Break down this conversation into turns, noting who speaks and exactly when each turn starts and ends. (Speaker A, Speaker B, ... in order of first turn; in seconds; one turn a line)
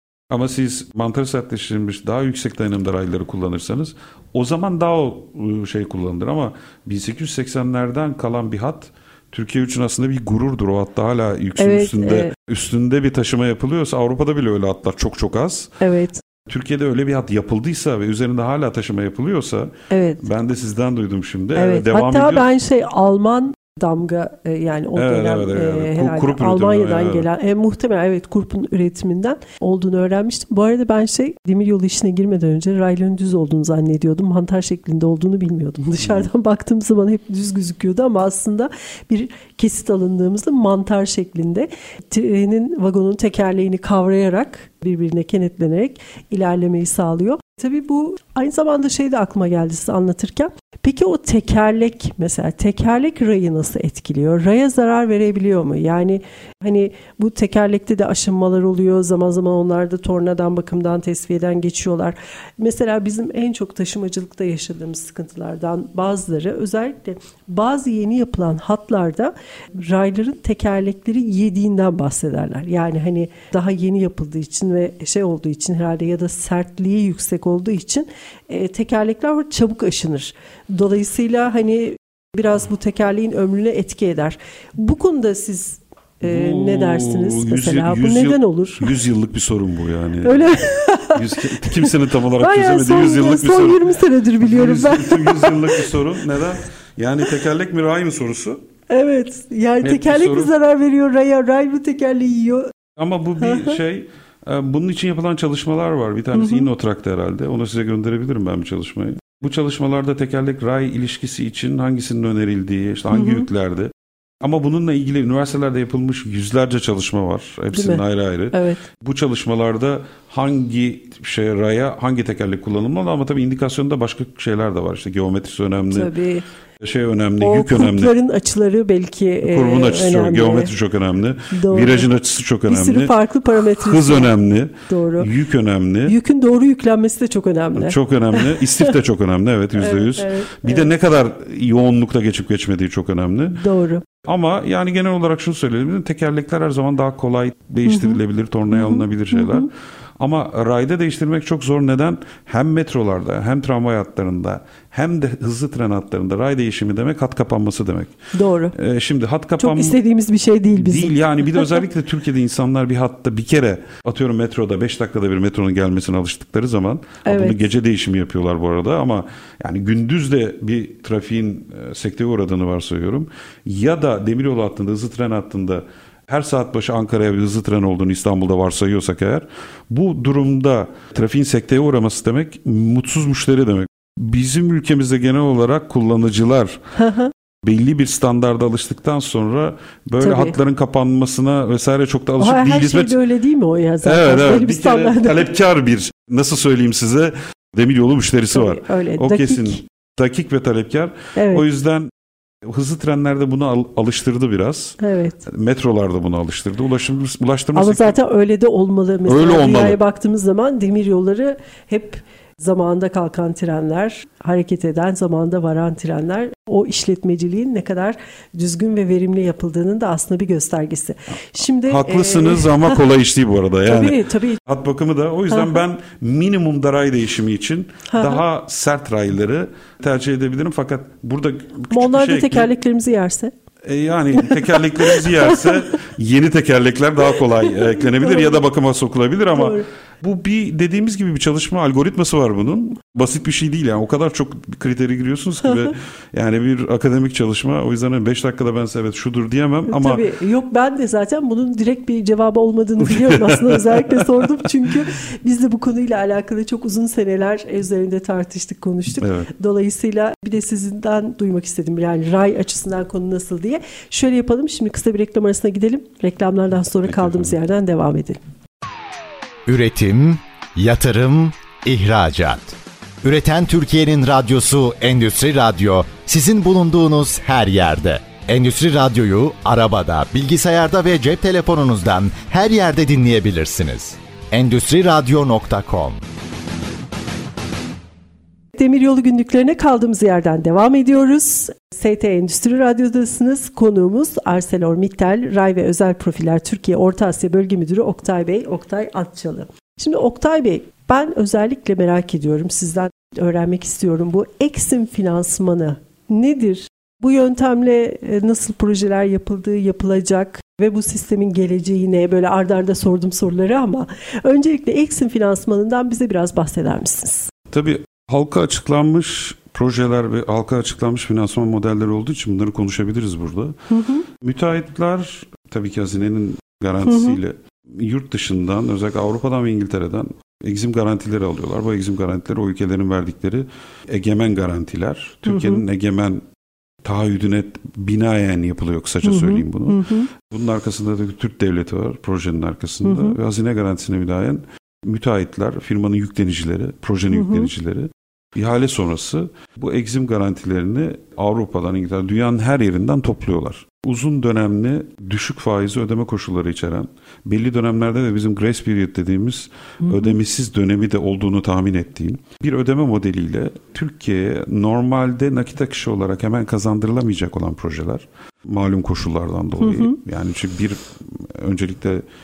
Speaker A: 0.3-15.8
Speaker B: 11.6-12.3
Speaker B: 15.8-16.2
Speaker A: 16.5-22.5
Speaker B: 19.9-20.2
Speaker B: 21.6-88.9
Speaker A: 24.9-27.3
Speaker A: 36.0-36.3
Speaker A: 86.2-98.6
Speaker B: 90.2-95.9
Speaker B: 98.9-102.7
Speaker A: 99.8-100.5
Speaker A: 103.0-126.1
Speaker B: 103.4-103.8
Speaker B: 106.3-106.7
Speaker B: 113.1-113.5
Speaker B: 117.7-118.8
Speaker B: 125.9-126.5
Speaker A: 126.8-128.2
Speaker B: 127.4-130.7
Speaker A: 129.4-133.1
Speaker B: 131.5-132.1
Speaker B: 132.7-134.3
Speaker A: 133.7-136.2
Speaker B: 134.9-135.3
Speaker B: 136.1-138.8
Speaker A: 137.8-143.6
Speaker B: 139.8-140.9
Speaker B: 143.5-144.0
Speaker A: 144.2-158.2
Speaker B: 147.9-148.2
Speaker B: 148.7-149.7
Speaker B: 158.3-158.7
Speaker A: 158.7-160.0
Speaker B: 159.6-161.8
Speaker A: 160.8-186.8
Speaker B: 167.2-167.6
Speaker B: 187.0-187.3
Speaker A: 187.6-193.2
Speaker B: 190.2-190.6
Speaker B: 192.4-195.4
Speaker A: 194.0-202.1
Speaker B: 198.5-199.8
Speaker B: 201.4-201.7
Speaker A: 202.6-208.2
Speaker B: 205.0-205.4
Speaker B: 207.8-223.0
Speaker A: 209.3-210.0
Speaker A: 221.9-232.7
Speaker B: 223.8-224.6
Speaker B: 228.1-228.4
Speaker B: 231.9-233.5
Speaker A: 233.8-250.2
Speaker B: 234.3-235.8
Speaker B: 237.7-238.6
Speaker B: 239.5-239.9
Speaker B: 249.9-268.4
Speaker A: 253.0-254.3
Speaker A: 259.2-259.5
Speaker A: 267.0-267.6
Speaker C: 269.7-286.2
Speaker B: 288.8-317.5
Speaker A: 317.7-336.4
Speaker B: 323.9-324.3
Speaker B: 327.0-327.4
Speaker B: 335.5-335.8
Speaker A: 337.0-372.2
Speaker B: 339.2-340.3
Speaker B: 343.0-343.4
Speaker B: 347.3-347.7
Speaker B: 360.0-360.3
Speaker B: 369.8-370.2